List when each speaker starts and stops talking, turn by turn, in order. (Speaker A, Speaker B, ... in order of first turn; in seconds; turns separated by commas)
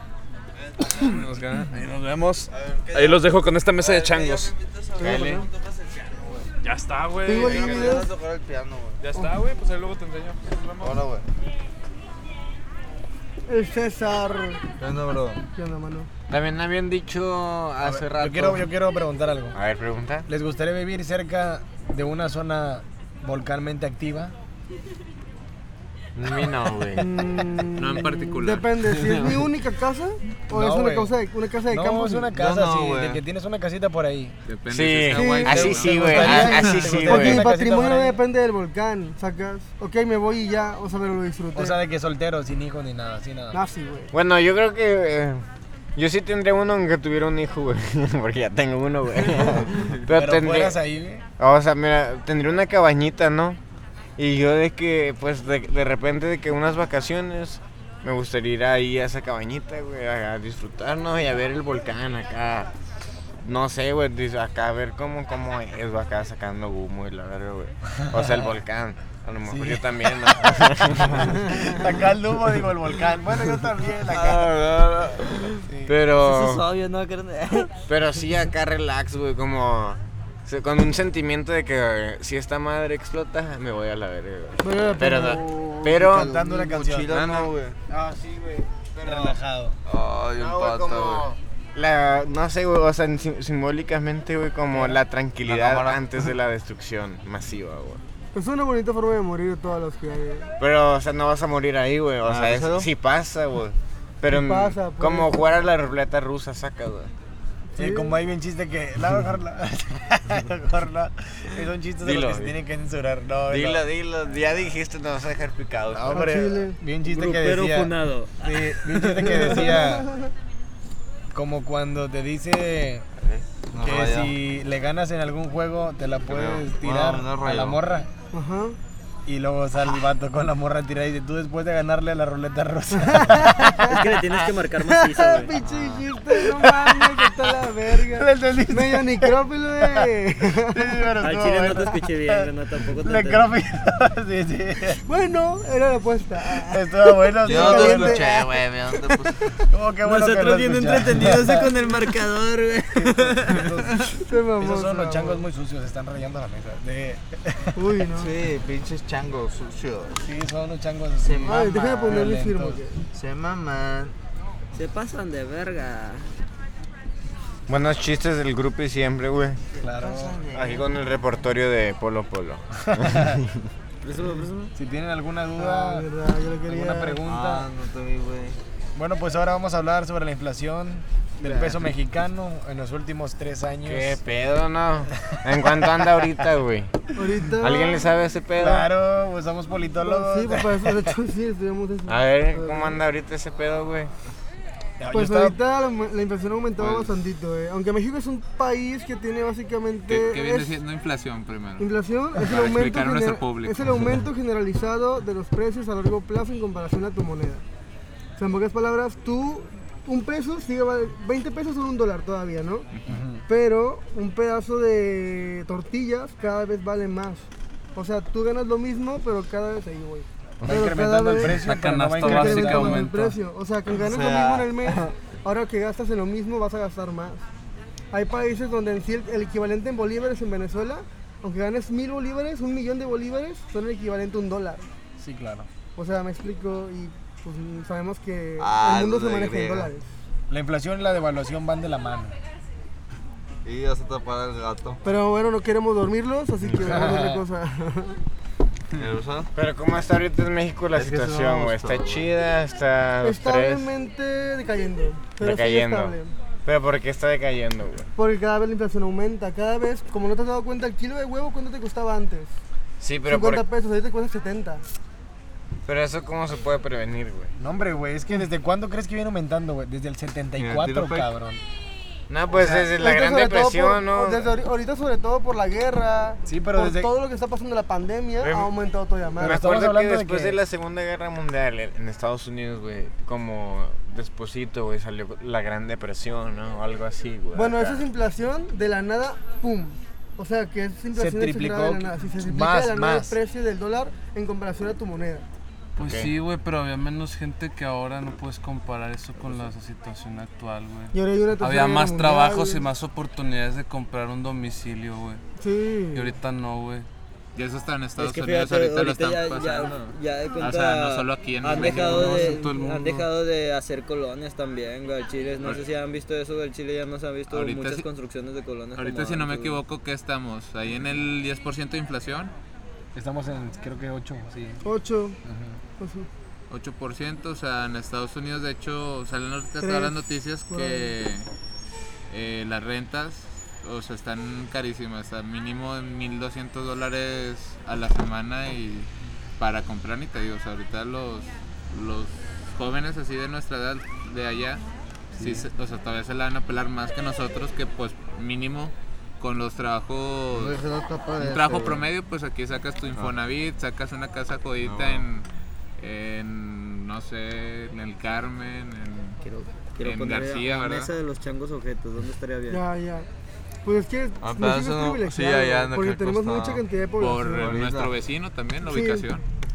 Speaker A: 0.9-4.5, Speaker B: 3.8-6.4, Speaker C: 5.0-5.5, Speaker D: 5.0-5.5, Speaker A: 6.6-8.0, Speaker D: 7.2-8.1, Speaker B: 7.5-9.0, Speaker A: 9.0-11.0, Speaker B: 10.8-11.2, Speaker D: 13.5-14.6, Speaker B: 14.8-15.4, Speaker D: 15.6-16.1, Speaker C: 16.3-18.7, Speaker E: 17.8-19.6, Speaker C: 19.5-20.3, Speaker E: 20.3-24.3, Speaker C: 26.2-27.1, Speaker D: 26.9-32.4, Speaker F: 27.8-29.1, Speaker E: 30.5-31.1, Speaker E: 31.7-34.4, Speaker B: 32.4-33.2, Speaker F: 34.5-36.5, Speaker C: 34.7-37.5, Speaker D: 35.1-41.8, Speaker E: 35.5-38.2, Speaker E: 41.5-43.6, Speaker D: 43.5-44.1, Speaker C: 44.1-45.4, Speaker C: 46.0-50.8, Speaker E: 50.1-51.2, Speaker C: 51.4-53.6, Speaker C: 54.2-62.7, Speaker C: 63.4-71.8, Speaker E: 69.5-74.9, Speaker B: 74.1-75.4, Speaker E: 75.7-76.0, Speaker C: 75.9-76.7, Speaker G: 76.2-77.7, Speaker C: 77.9-86.4, Speaker D: 84.6-85.9, Speaker E: 86.0-87.5, Speaker B: 86.0-87.8, Speaker C: 87.1-89.3, Speaker E: 89.0-89.8, Speaker B: 89.9-91.3, Speaker C: 90.3-98.0, Speaker B: 95.4-96.0, Speaker D: 98.3-100.5, Speaker C: 100.6-107.1, Speaker B: 102.2-102.9, Speaker D: 104.3-105.5, Speaker D: 107.7-108.2, Speaker E: 107.8-113.9, Speaker C: 112.0-112.5, Speaker C: 113.5-116.3, Speaker E: 115.9-120.1, Speaker D: 116.1-116.8, Speaker G: 117.0-119.5, Speaker D: 119.2-120.3, Speaker E: 121.3-123.1, Speaker B: 123.7-124.3, Speaker E: 123.8-128.1, Speaker B: 126.3-127.8, Speaker D: 128.3-128.8, Speaker E: 129.3-134.2, Speaker D: 132.9-134.0, Speaker G: 133.8-135.6, Speaker D: 134.8-141.0, Speaker E: 135.7-137.2, Speaker E: 138.0-140.0, Speaker E: 140.7-142.5, Speaker G: 141.2-143.5, Speaker E: 143.0-145.0, Speaker D: 145.1-148.4, Speaker E: 146.7-148.3, Speaker B: 147.4-149.3, Speaker E: 149.6-151.7, Speaker G: 150.1-154.0, Speaker E: 152.9-158.0, Speaker D: 154.3-155.4, Speaker D: 157.8-158.3, Speaker B: 158.2-160.2, Speaker E: 160.2-162.8, Speaker B: 161.2-161.6, Speaker D: 161.4-163.0, Speaker B: 163.1-164.2, Speaker G: 164.8-166.3, Speaker C: 167.7-169.6, Speaker E: 169.8-170.5, Speaker B: 170.0-170.9, Speaker C: 170.5-173.4, Speaker E: 172.9-173.4, Speaker G: 174.0-174.7, Speaker E: 174.8-176.1, Speaker D: 175.6-177.2, Speaker E: 176.7-177.7, Speaker B: 177.2-178.6, Speaker E: 178.9-184.2, Speaker C: 183.8-188.9, Speaker E: 185.3-186.3, Speaker D: 187.2-188.1, Speaker E: 188.6-191.1, Speaker D: 190.0-193.0, Speaker C: 192.1-194.1, Speaker E: 195.0-195.6, Speaker D: 195.1-200.8, Speaker F: 196.8-197.2, Speaker F: 200.1-204.1, Speaker D: 201.8-207.6, Speaker D: 208.4-212.9, Speaker E: 213.1-213.4, Speaker D: 213.5-227.4, Speaker E: 220.6-223.1, Speaker H: 221.6-223.3, Speaker B: 223.9-225.0, Speaker D: 228.1-234.9, Speaker E: 235.2-235.7, Speaker D: 236.0-240.1, Speaker B: 238.6-239.9, Speaker E: 240.5-242.3, Speaker B: 243.7-245.0, Speaker D: 245.0-248.2, Speaker E: 246.7-247.4, Speaker B: 249.0-249.5, Speaker C: 249.6-253.9, Speaker B: 250.9-252.3, Speaker D: 253.2-256.3, Speaker C: 255.4-258.1, Speaker D: 258.2-262.6, Speaker C: 263.0-263.6, Speaker D: 263.3-264.8, Speaker C: 265.9-267.5, Speaker E: 267.6-271.6, Speaker B: 270.6-271.4, Speaker C: 272.3-274.5, Speaker E: 272.5-272.9, Speaker D: 272.9-279.6, Speaker E: 276.5-277.1, Speaker C: 278.4-278.7, Speaker C: 279.4-288.1, Speaker E: 279.4-280.6, Speaker D: 287.5-295.5, Speaker E: 291.1-293.4, Speaker H: 296.0-305.4, Speaker C: 296.0-296.3, Speaker D: 301.1-302.9, Speaker D: 305.6-306.4, Speaker H: 306.1-307.1, Speaker F: 307.6-312.6, Speaker G: 308.2-319.8, Speaker H: 311.7-313.3, Speaker F: 317.5-318.1, Speaker F: 319.0-322.5, Speaker E: 323.1-324.8, Speaker D: 324.8-325.4, Speaker E: 325.4-325.8, Speaker D: 326.0-326.3, Speaker F: 326.7-331.5, Speaker D: 329.8-331.1, Speaker F: 332.3-344.8, Speaker F: 345.4-350.8, Speaker B: 350.6-352.0, Speaker F: 351.4-355.5, Speaker B: 354.8-355.3, Speaker F: 356.0-359.4, Speaker G: 359.4-362.8, Speaker F: 360.0-361.1, Speaker D: 362.7-363.3, Speaker D: 363.9-367.7, Speaker B: 364.4-366.8, Speaker F: 367.2-369.4, Speaker B: 367.6-368.1, Speaker D: 368.8-369.3